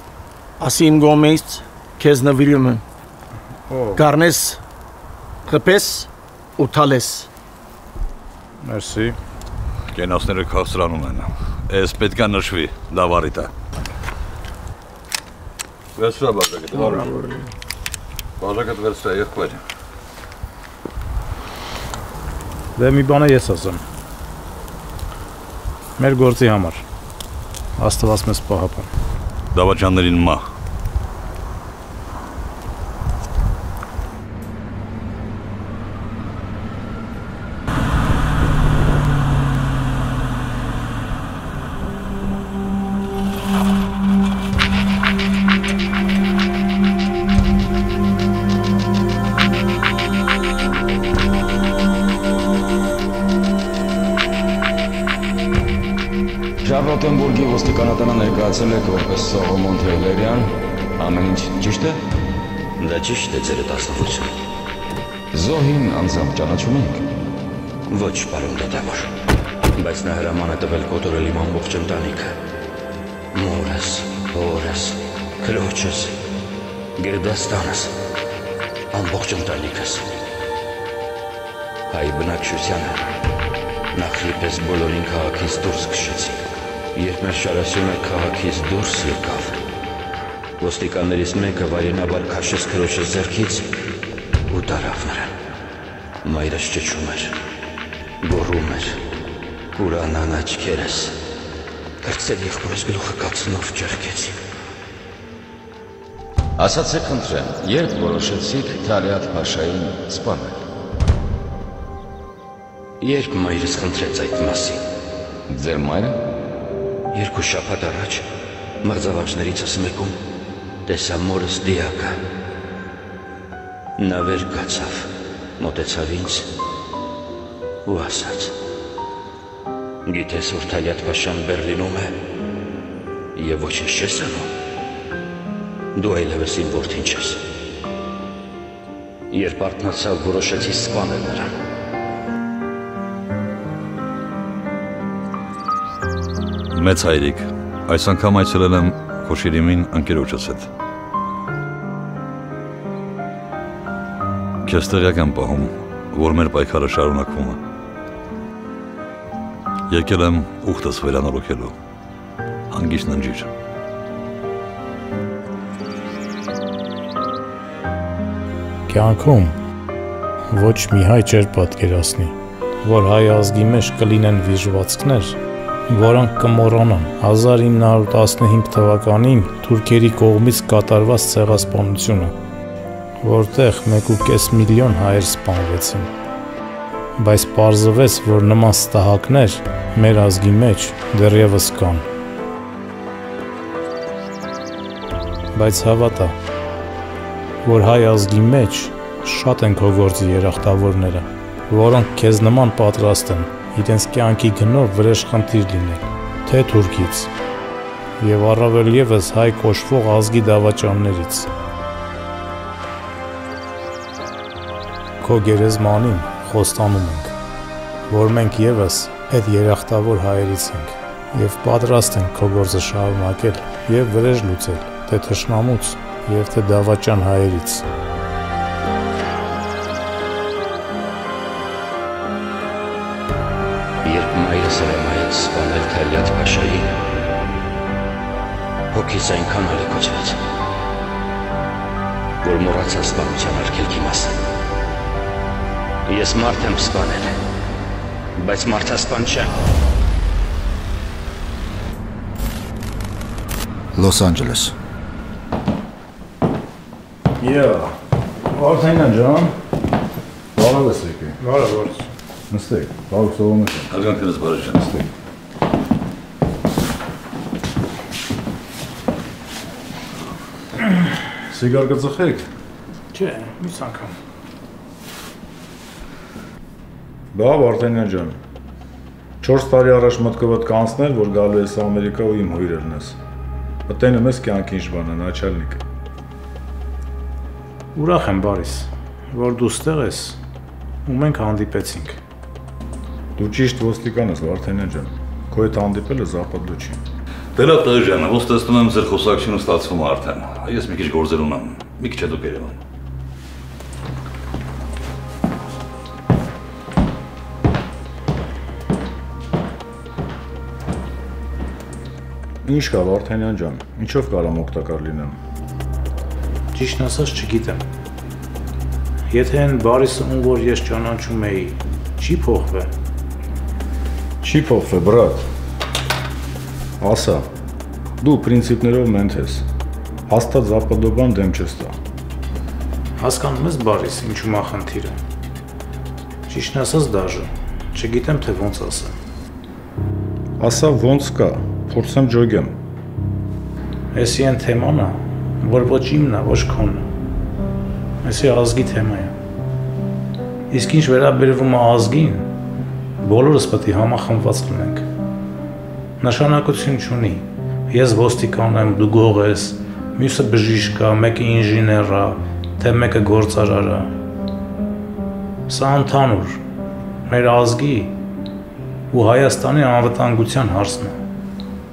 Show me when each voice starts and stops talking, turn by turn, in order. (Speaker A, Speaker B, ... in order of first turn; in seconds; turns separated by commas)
Speaker A: 0.6-2.8, Speaker B: 3.7-4.0, Speaker A: 4.0-4.6, Speaker A: 5.5-7.3, Speaker B: 8.6-9.2, Speaker C: 9.9-13.5, Speaker C: 16.0-17.1, Speaker A: 16.8-17.4, Speaker C: 18.4-19.6, Speaker B: 22.8-23.8, Speaker B: 26.0-26.8, Speaker B: 27.8-28.9, Speaker C: 29.5-30.5, Speaker D: 56.6-62.0, Speaker E: 62.8-64.3, Speaker D: 65.3-67.1, Speaker E: 67.9-69.1, Speaker E: 69.8-72.3, Speaker E: 73.3-76.2, Speaker E: 77.0-78.0, Speaker E: 78.9-80.1, Speaker E: 81.9-83.0, Speaker E: 83.9-86.4, Speaker E: 86.9-89.6, Speaker E: 90.6-93.7, Speaker E: 94.5-95.3, Speaker E: 96.2-97.3, Speaker E: 98.2-99.0, Speaker E: 99.8-101.2, Speaker E: 102.0-104.4, Speaker D: 106.6-110.6, Speaker E: 113.0-114.8, Speaker D: 115.5-116.2, Speaker E: 117.1-118.2, Speaker E: 118.8-120.2, Speaker E: 120.9-122.2, Speaker E: 124.0-126.5, Speaker E: 127.8-128.6, Speaker E: 130.1-132.2, Speaker E: 133.3-134.5, Speaker E: 135.9-137.4, Speaker E: 139.3-141.5, Speaker C: 146.7-150.7, Speaker C: 154.6-157.6, Speaker C: 159.9-161.7, Speaker C: 162.7-163.5, Speaker B: 168.9-169.6, Speaker B: 170.5-182.3, Speaker B: 183.2-186.1, Speaker B: 187.2-192.1, Speaker B: 195.5-196.4, Speaker B: 197.6-207.3, Speaker B: 208.2-211.5, Speaker B: 215.2-217.3, Speaker B: 218.1-227.9, Speaker E: 234.0-236.9, Speaker E: 238.9-240.4, Speaker E: 242.4-244.4, Speaker E: 246.1-247.4, Speaker E: 248.4-249.5, Speaker D: 253.9-254.7, Speaker F: 257.4-258.0, Speaker F: 258.5-259.6, Speaker F: 260.6-261.4, Speaker B: 261.4-262.1, Speaker F: 262.5-263.9, Speaker C: 263.9-264.9, Speaker F: 271.5-272.5, Speaker B: 273.1-274.1, Speaker F: 277.3-278.4, Speaker F: 279.4-283.2, Speaker F: 283.9-285.8, Speaker B: 287.9-290.4, Speaker B: 291.1-292.2, Speaker F: 293.4-297.0, Speaker C: 297.6-302.8, Speaker F: 312.6-315.4, Speaker B: 316.7-317.8, Speaker B: 319.3-322.9, Speaker F: 324.4-325.4, Speaker F: 327.0-327.5, Speaker F: 328.2-329.7, Speaker F: 330.3-332.0, Speaker B: 333.2-335.2, Speaker B: 336.5-339.2, Speaker F: 340.6-342.8, Speaker B: 344.1-347.1, Speaker B: 348.2-349.4, Speaker B: 350.7-352.5, Speaker B: 353.2-355.1, Speaker B: 356.2-364.1, Speaker B: 365.7-366.6, Speaker B: 367.3-368.1, Speaker B: 369.1-371.2